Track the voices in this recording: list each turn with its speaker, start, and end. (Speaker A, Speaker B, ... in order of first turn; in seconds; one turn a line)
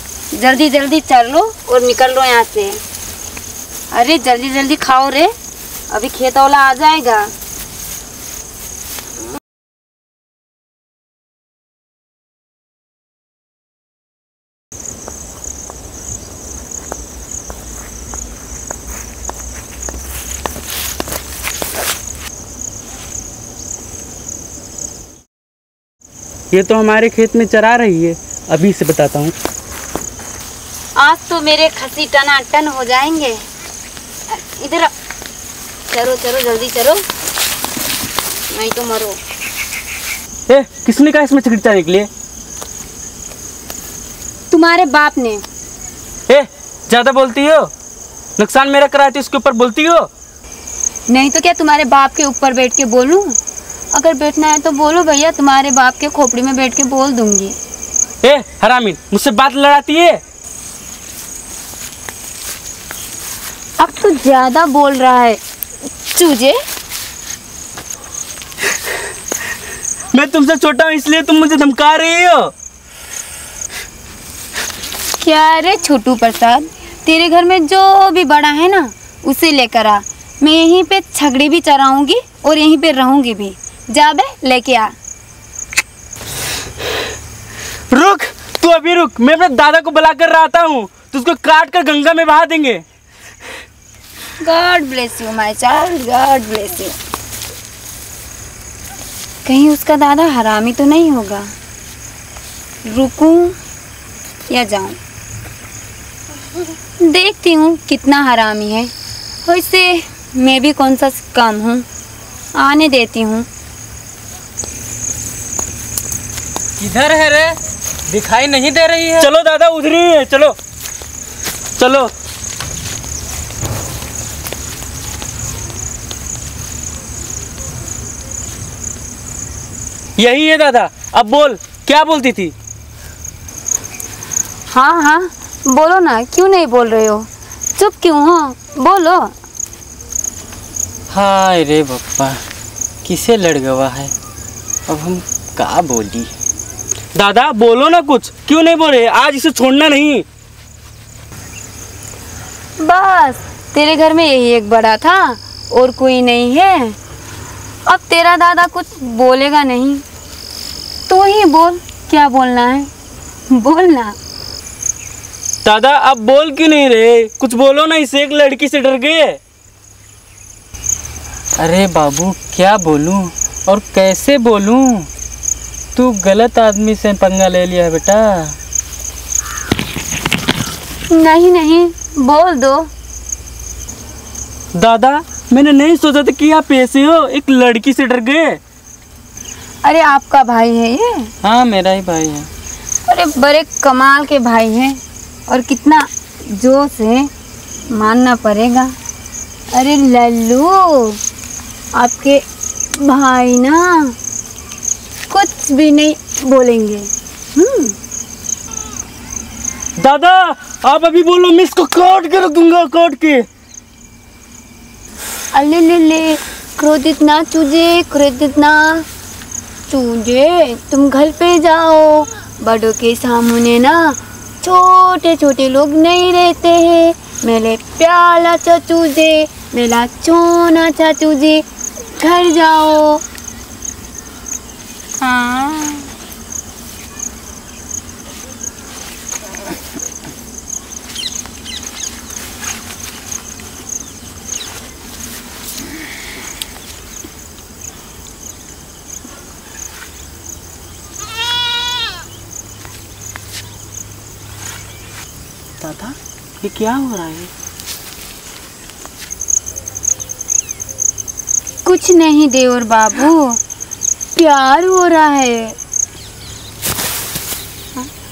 Speaker A: 0.3-2.8
Speaker A: 3.9-5.3
Speaker A: 5.9-7.3
Speaker B: 26.5-29.3
Speaker A: 31.0-33.4
Speaker A: 34.3-34.9
Speaker A: 35.9-37.0
Speaker A: 38.5-39.2
Speaker B: 40.5-42.1
Speaker A: 44.5-45.4
Speaker B: 46.3-47.7
Speaker B: 48.4-50.1
Speaker A: 51.1-53.4
Speaker A: 53.9-57.5
Speaker B: 58.2-60.2
Speaker A: 63.8-65.4
Speaker A: 66.0-66.6
Speaker B: 70.1-72.5
Speaker A: 75.2-84.9
Speaker B: 87.9-92.8
Speaker A: 94.4-97.0
Speaker A: 99.4-101.5
Speaker A: 102.8-103.5
Speaker A: 104.5-105.0
Speaker A: 107.0-108.9
Speaker A: 109.4-111.8
Speaker A: 112.5-113.5
Speaker C: 116.8-117.6
Speaker C: 118.1-119.3
Speaker B: 119.2-120.5
Speaker B: 121.8-122.1
Speaker B: 130.2-132.5
Speaker A: 134.7-139.3
Speaker C: 141.1-142.4
Speaker C: 143.0-144.1
Speaker C: 144.9-146.3
Speaker B: 147.1-150.2
Speaker A: 152.8-157.0
Speaker A: 157.8-160.0
Speaker A: 161.1-162.9
Speaker A: 163.5-164.2
Speaker B: 165.6-169.4
Speaker C: 171.6-175.1
Speaker C: 175.9-178.6
Speaker A: 181.1-182.9
Speaker B: 184.7-188.6
Speaker A: 189.8-191.3
Speaker C: 191.4-192.5
Speaker A: 193.0-197.3
Speaker A: 197.9-198.9
Speaker A: 199.7-201.2
Speaker A: 201.9-204.2
Speaker A: 205.3-207.9
Speaker B: 210.0-213.4
Speaker A: 215.5-219.1
Speaker A: 219.9-231.6
Speaker A: 232.2-233.2
Speaker A: 235.2-236.1
Speaker C: 255.8-257.5
Speaker A: 261.8-263.6
Speaker A: 264.3-265.8